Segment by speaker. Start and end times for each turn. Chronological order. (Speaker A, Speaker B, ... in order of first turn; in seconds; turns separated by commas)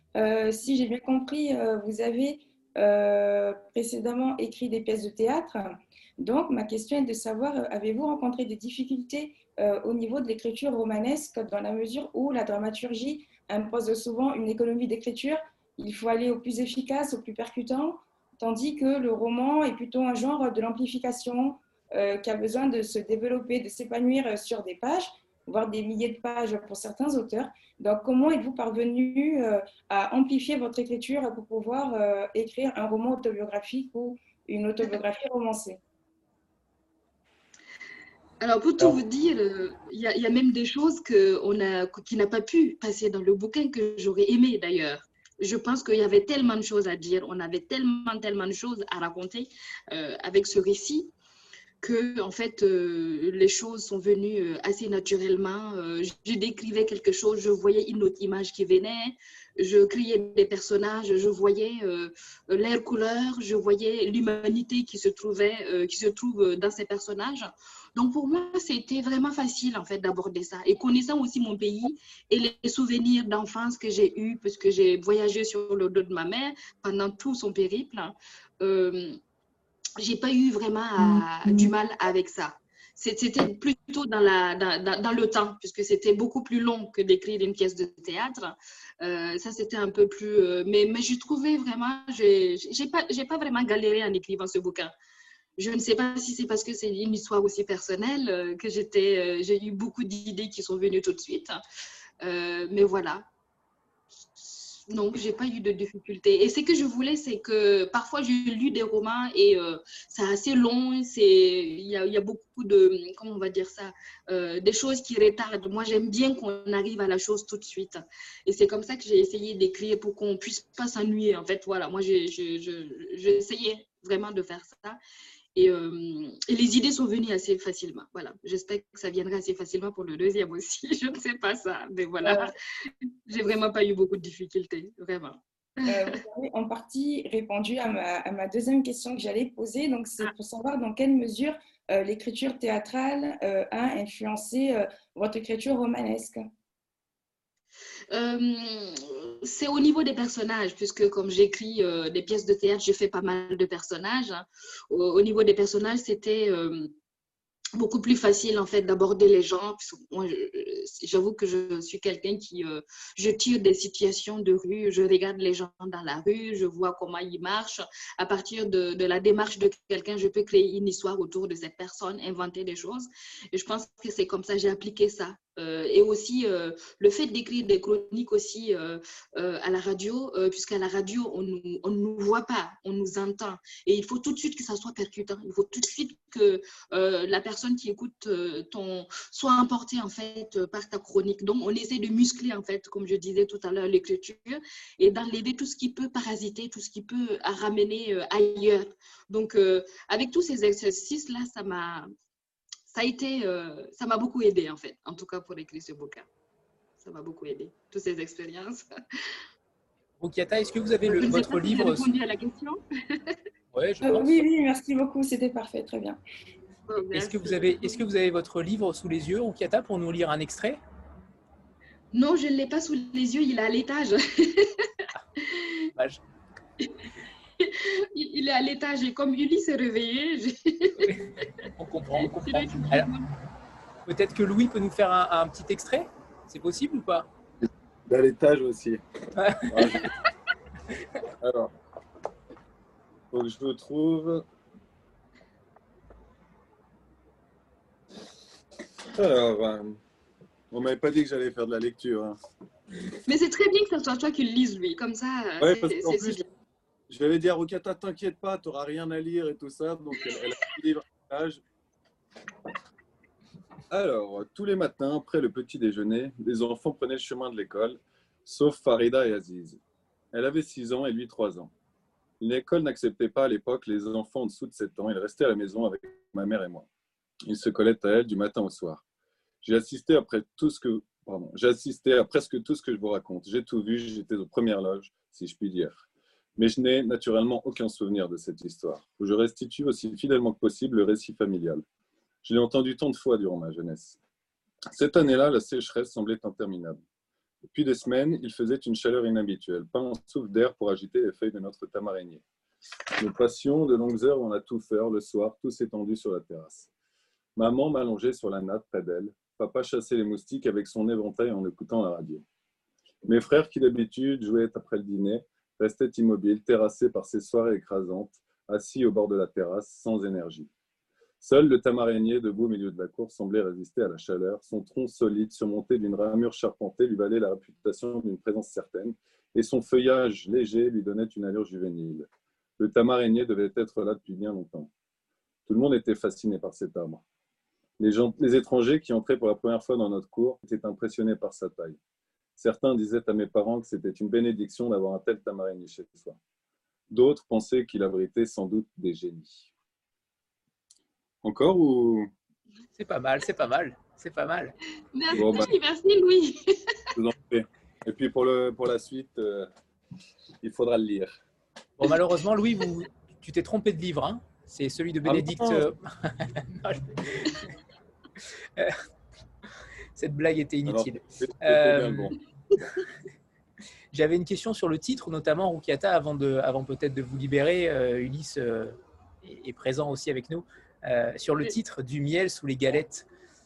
Speaker A: 0.1-35.8, Speaker B: 38.4-51.1, Speaker B: 51.8-79.2, Speaker B: 80.0-94.9, Speaker A: 81.0-81.7, Speaker B: 95.6-101.6, Speaker B: 102.2-103.2, Speaker B: 104.3-125.0, Speaker B: 125.5-136.2, Speaker A: 132.2-132.5, Speaker A: 135.8-146.5, Speaker B: 148.1-156.9, Speaker B: 157.8-202.1, Speaker B: 202.9-206.3, Speaker B: 207.0-208.8, Speaker C: 210.2-212.1, Speaker B: 211.1-213.3, Speaker C: 213.7-214.4, Speaker A: 214.0-216.2, Speaker B: 216.9-218.0, Speaker C: 217.1-220.8, Speaker B: 222.1-224.9, Speaker C: 225.9-226.2, Speaker B: 227.6-231.1, Speaker C: 231.7-233.1, Speaker B: 232.2-233.3, Speaker C: 234.1-237.3, Speaker D: 237.6-239.0, Speaker C: 239.4-239.7, Speaker D: 239.7-240.0, Speaker D: 241.4-241.7, Speaker D: 243.3-244.4, Speaker D: 249.1-250.0, Speaker D: 250.7-252.4, Speaker B: 253.3-256.4, Speaker D: 255.6-256.4, Speaker D: 257.1-261.6, Speaker D: 263.9-269.8, Speaker D: 270.3-271.7, Speaker D: 272.4-276.9, Speaker D: 277.4-279.0, Speaker D: 279.6-291.8, Speaker D: 292.4-294.2, Speaker D: 294.9-297.0, Speaker D: 297.7-302.4, Speaker D: 303.2-306.9, Speaker D: 307.6-312.4, Speaker D: 313.2-320.7, Speaker D: 321.4-334.9, Speaker D: 335.7-337.2, Speaker D: 338.0-342.0, Speaker D: 342.6-346.4, Speaker D: 347.1-349.7, Speaker D: 351.4-352.3, Speaker C: 352.9-354.7, Speaker B: 355.1-356.8, Speaker D: 355.3-355.7, Speaker D: 357.1-359.7, Speaker D: 360.6-361.3, Speaker C: 362.0-367.6, Speaker D: 365.2-365.9, Speaker C: 370.1-372.3, Speaker D: 370.9-372.4, Speaker C: 374.1-383.2